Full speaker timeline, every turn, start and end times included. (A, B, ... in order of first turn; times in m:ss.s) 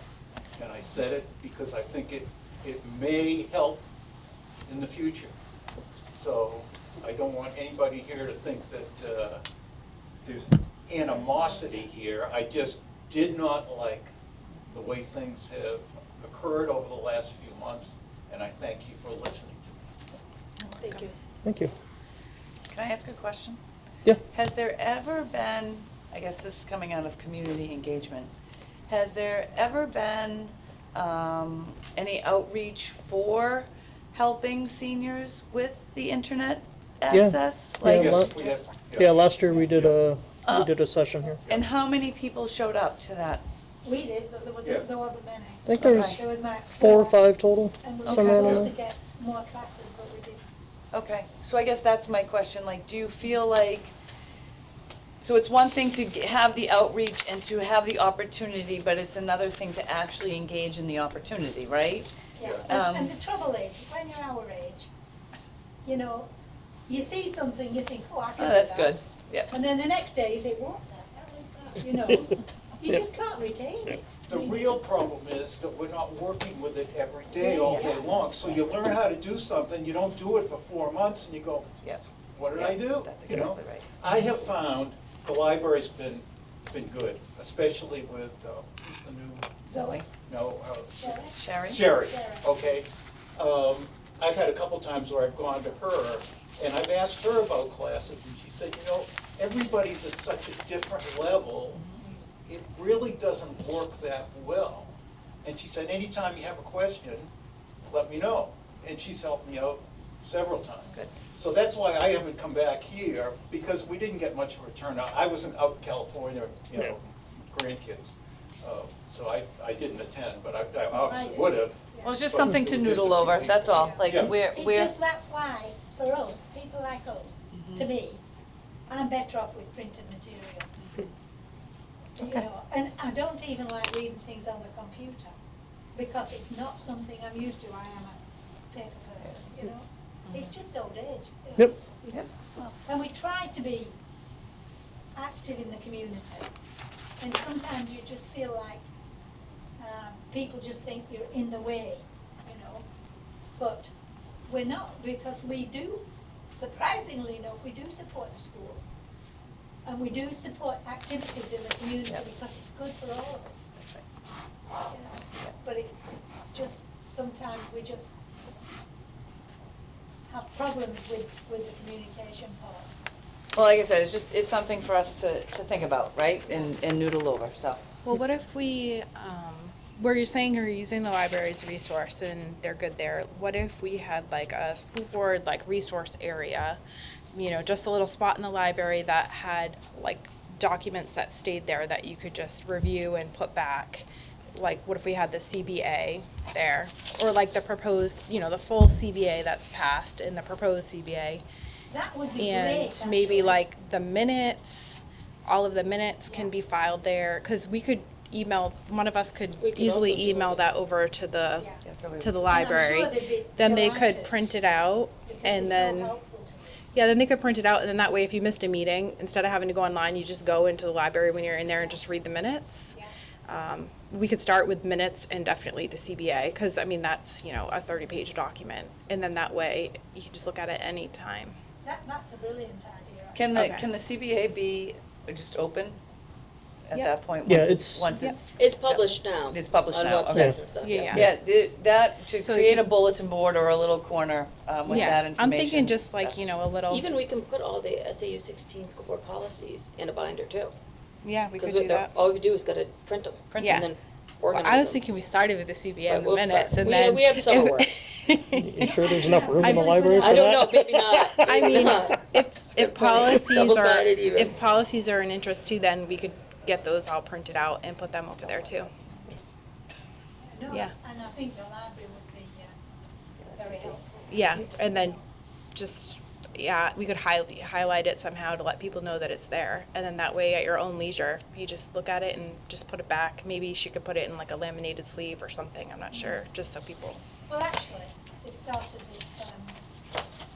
0:00.6-0:03.8 A
0:04.7-0:05.3 A
0:06.1-0:09.4 A
0:10.2-0:14.1 A
0:11.3-0:11.8 B
0:14.7-0:19.6 A
0:20.7-0:21.1 B
0:21.4-0:21.7 C
0:22.7-0:23.6 D
0:24.3-0:28.3 D
0:28.9-0:38.2 D
0:37.1-0:41.4 C
0:37.8-0:40.0 A
0:40.4-0:40.8 D
0:41.4-0:43.4 D
0:43.8-0:47.2 B
0:45.6-0:46.2 C
0:45.8-0:46.2 D
0:46.7-0:48.7 C
0:47.8-0:50.4 B
0:48.0-0:48.4 D
0:48.4-0:48.7 A
0:50.9-0:53.9 D
0:55.2-1:02.1 D
1:02.4-1:04.9 B
1:02.4-1:02.6 A
1:02.6-1:03.1 D
1:05.8-1:06.3 B
1:06.9-1:14.8 B
1:08.4-1:09.5 D
1:14.3-1:29.5 A
1:17.4-1:18.2 B
1:21.8-1:24.0 D
1:29.7-1:30.0 D
1:29.7-1:30.0 B
1:30.2-1:41.8 A
1:31.0-1:32.5 B
1:31.3-1:31.8 D
1:41.7-1:42.0 D
1:42.4-1:44.9 A
1:45.4-1:47.3 A
1:47.9-2:04.3 A
2:01.0-2:02.2 B
2:02.0-2:04.9 D
2:03.8-2:08.2 B
2:07.5-2:07.9 D
2:08.9-2:10.8 B
2:12.2-2:15.3 B
2:12.2-2:12.4 D
2:15.9-2:18.2 B
2:18.7-2:21.7 B
2:19.2-2:19.6 D
2:22.0-2:22.3 D
2:22.6-2:23.9 B
2:25.1-2:26.5 B
2:27.2-2:28.8 B
2:29.8-2:32.8 B
2:33.6-2:33.9 B
2:34.4-2:38.9 B
2:39.8-2:43.7 B
2:43.8-2:44.1 D
2:44.9-2:48.2 B
2:50.3-2:52.9 B
2:53.5-2:57.8 D
2:58.0-3:06.8 E
3:07.3-3:21.4 E
3:21.9-3:23.6 B
3:22.4-3:36.1 E
3:26.2-3:26.5 B
3:29.6-3:30.6 F
3:31.8-3:32.6 D
3:32.5-3:34.4 B
3:35.2-3:36.8 B
3:36.9-3:43.0 E
3:43.5-3:51.6 E
3:51.8-3:53.6 B
3:53.3-3:56.0 D
3:53.5-3:53.8 E
3:56.9-4:06.5 D
3:57.4-3:58.2 C
3:58.6-4:01.2 F
4:00.3-4:00.6 C
4:00.8-4:01.3 E
4:02.4-4:02.9 E
4:04.8-4:07.1 E
4:04.9-4:05.2 F
4:06.9-4:10.7 F
4:11.2-4:12.1 E
4:11.6-4:15.1 F
4:13.5-4:13.8 D
4:13.6-4:13.9 E
4:14.5-4:20.0 E
4:16.1-4:17.9 F
4:18.5-4:22.2 C
4:18.8-4:20.5 B
4:20.1-4:24.5 F
4:21.4-4:28.9 E
4:30.5-4:32.7 B
4:33.4-4:34.0 D
4:33.6-4:35.2 B
4:34.3-4:35.2 E
4:35.7-4:47.2 E
4:47.5-4:49.8 B